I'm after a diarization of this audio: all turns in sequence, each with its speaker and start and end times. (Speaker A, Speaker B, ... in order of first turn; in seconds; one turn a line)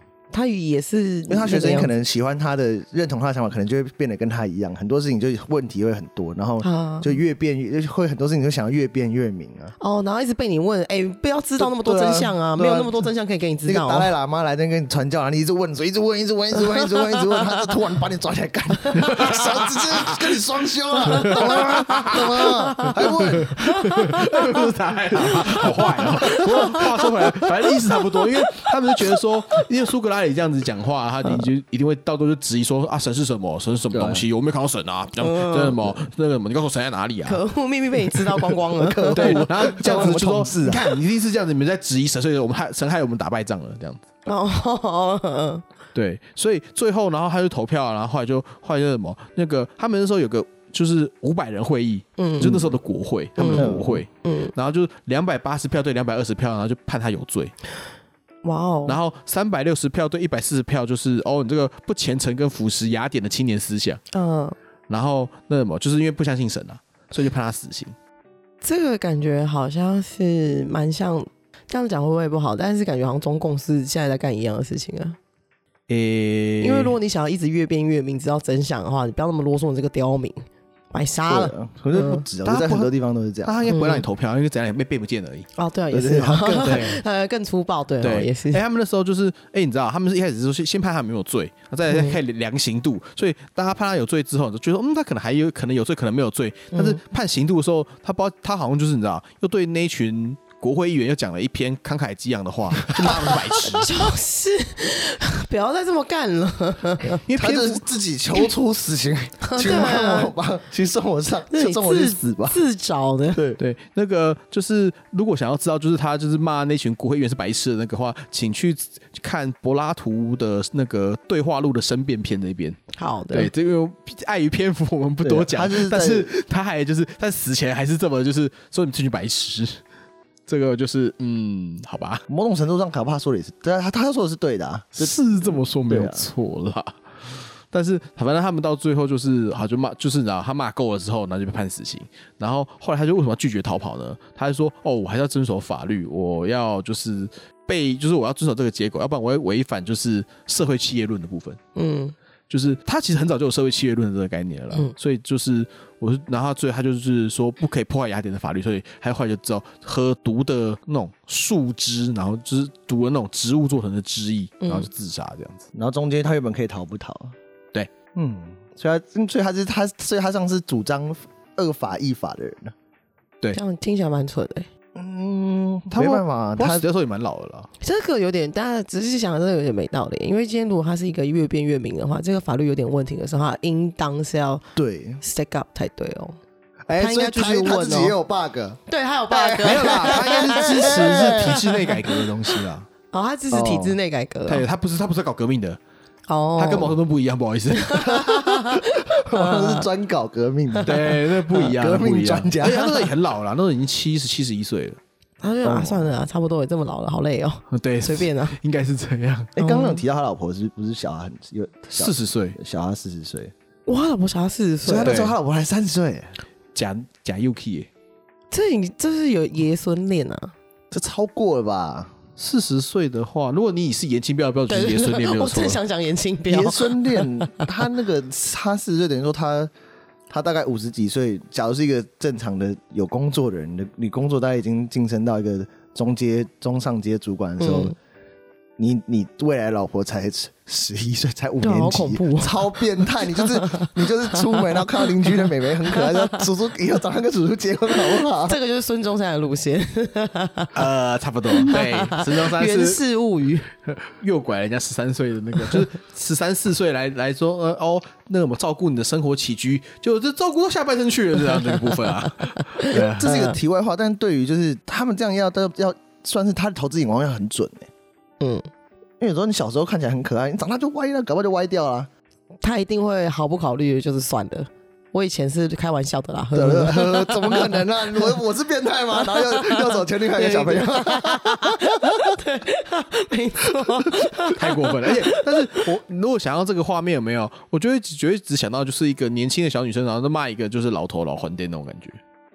Speaker A: 0.3-1.9
Speaker B: 1.3-9.7
Speaker A: 6.6-7.1
Speaker A: 9.8-14.1
Speaker B: 11.6-13.1
Speaker B: 13.7-23.6
Speaker A: 16.6-17.8
Speaker A: 18.8-19.3
Speaker C: 19.0-20.4
Speaker A: 21.1-24.6
Speaker C: 21.1-22.3
Speaker C: 23.0-37.4
Speaker B: 25.1-27.3
Speaker A: 25.2-27.0
Speaker A: 27.9-28.7
Speaker B: 33.9-34.2
Speaker A: 35.2-35.9
Speaker A: 37.2-40.0
Speaker B: 38.6-41.0
Speaker C: 39.1-44.0
Speaker A: 44.2-45.6
Speaker C: 46.0-57.5
Speaker A: 52.2-52.7
Speaker A: 53.4-54.5
Speaker B: 53.5-54.0
Speaker A: 58.4-59.0
Speaker C: 58.9-64.0
Speaker A: 64.1-64.6
Speaker C: 64.9-68.0
Speaker A: 68.6-75.2
Speaker C: 75.9-77.0
Speaker A: 76.6-82.2
Speaker B: 81.3-83.6
Speaker C: 82.5-82.9
Speaker C: 83.4-85.5
Speaker A: 83.7-84.0
Speaker A: 85.6-88.6
Speaker B: 85.9-86.9
Speaker C: 86.6-87.0
Speaker C: 88.0-104.1
Speaker A: 91.9-92.2
Speaker A: 96.7-97.0
Speaker B: 103.0-103.6
Speaker A: 103.6-107.2
Speaker C: 107.2-107.8
Speaker B: 107.3-112.6
Speaker A: 109.5-110.3
Speaker A: 111.5-113.4
Speaker B: 113.3-113.6
Speaker C: 113.6-129.8
Speaker A: 123.0-123.5
Speaker B: 125.2-126.3
Speaker C: 130.5-132.2
Speaker B: 132.3-136.3
Speaker C: 135.0-137.0
Speaker C: 137.7-151.6
Speaker A: 151.8-152.1
Speaker C: 152.5-165.7
Speaker A: 164.6-164.9
Speaker B: 165.7-167.3
Speaker B: 168.1-172.7
Speaker A: 173.5-174.7
Speaker B: 174.9-176.8
Speaker C: 175.9-177.7
Speaker A: 177.8-184.6
Speaker B: 184.8-185.2
Speaker A: 185.2-186.4
Speaker B: 186.9-192.7
Speaker A: 186.9-188.1
Speaker A: 188.9-192.0
Speaker C: 189.6-192.8
Speaker A: 193.1-194.7
Speaker B: 193.5-194.0
Speaker C: 194.5-195.8
Speaker A: 196.3-197.0
Speaker C: 196.6-198.3
Speaker A: 197.7-199.9
Speaker B: 198.7-203.1
Speaker C: 200.8-205.0
Speaker A: 205.4-208.6
Speaker B: 205.6-206.1
Speaker C: 207.7-209.5
Speaker B: 209.6-213.5
Speaker A: 209.6-210.0
Speaker C: 211.9-212.6
Speaker A: 213.9-215.2
Speaker B: 214.8-216.3
Speaker C: 215.1-215.3
Speaker C: 216.8-217.9
Speaker A: 218.5-220.5
Speaker B: 220.9-222.1
Speaker C: 222.4-225.8
Speaker A: 224.7-227.7
Speaker B: 226.5-229.7
Speaker B: 230.3-237.9
Speaker A: 237.6-237.9
Speaker B: 238.8-248.6
Speaker A: 241.6-246.5
Speaker A: 248.0-250.7
Speaker C: 250.7-253.0
Speaker A: 251.6-253.7
Speaker C: 253.9-263.4
Speaker A: 261.5-263.6
Speaker B: 262.9-267.9
Speaker A: 268.4-268.6
Speaker B: 269.2-272.1
Speaker A: 272.6-278.4
Speaker B: 276.5-282.4
Speaker A: 279.1-285.9
Speaker C: 284.6-292.2